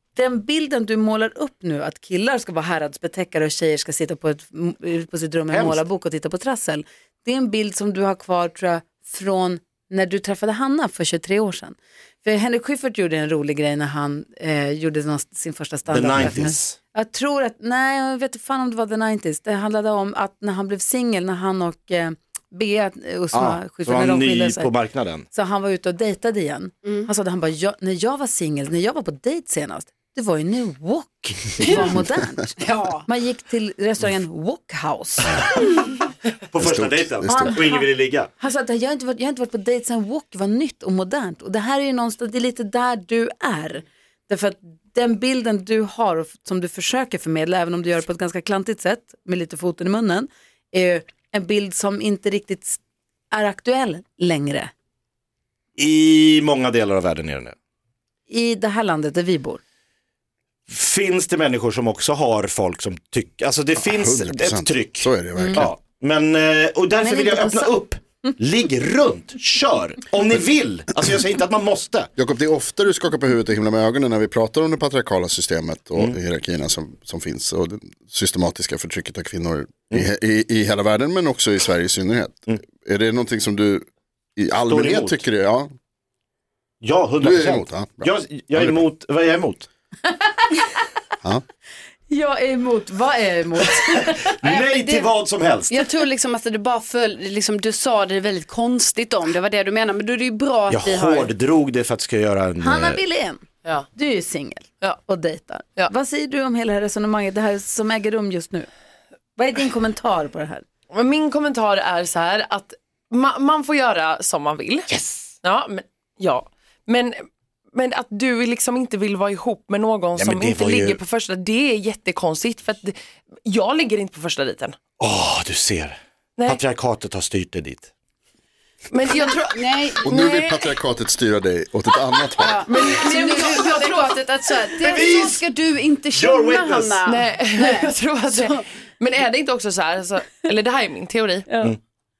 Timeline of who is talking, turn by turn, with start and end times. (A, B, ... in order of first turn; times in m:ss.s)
0:00.2-0:24.7 A
0:05.5-0:05.8 B
0:15.9-0:16.8 B
0:23.3-0:25.3 B
0:25.3-0:35.5 A
0:31.7-0:31.9 C
0:32.6-0:33.0 C
0:36.5-0:38.3 B
0:36.6-0:37.5 D
0:37.2-0:52.8 A
0:53.3-0:54.7 A
0:55.8-0:57.5 B
0:58.3-0:59.6 A
1:00.7-1:12.1 B
1:03.8-1:05.8 D
1:05.4-1:05.7 A
1:07.0-1:08.3 A
1:12.2-1:25.7 D
1:24.7-1:25.2 B
1:26.8-1:29.7 B
1:27.2-1:28.8 D
1:32.1-1:34.3 A
1:34.4-1:35.8 B
1:34.4-1:35.1 C
1:35.7-1:41.3 C
1:40.7-1:43.0 B
1:42.6-1:48.7 A
1:49.4-1:50.6 A
1:50.9-1:54.9 E
1:55.4-1:57.2 E
1:57.8-2:03.0 E
2:00.2-2:01.0 B
2:03.5-2:04.8 E
2:05.0-2:07.9 B
2:08.9-2:10.6 E
2:09.1-2:10.1 C
2:10.0-2:12.8 D
2:12.4-2:18.6 C
2:12.7-2:14.2 E
2:13.1-2:13.4 A
2:14.8-2:15.4 B
2:16.1-2:17.0 B
2:17.1-2:21.5 E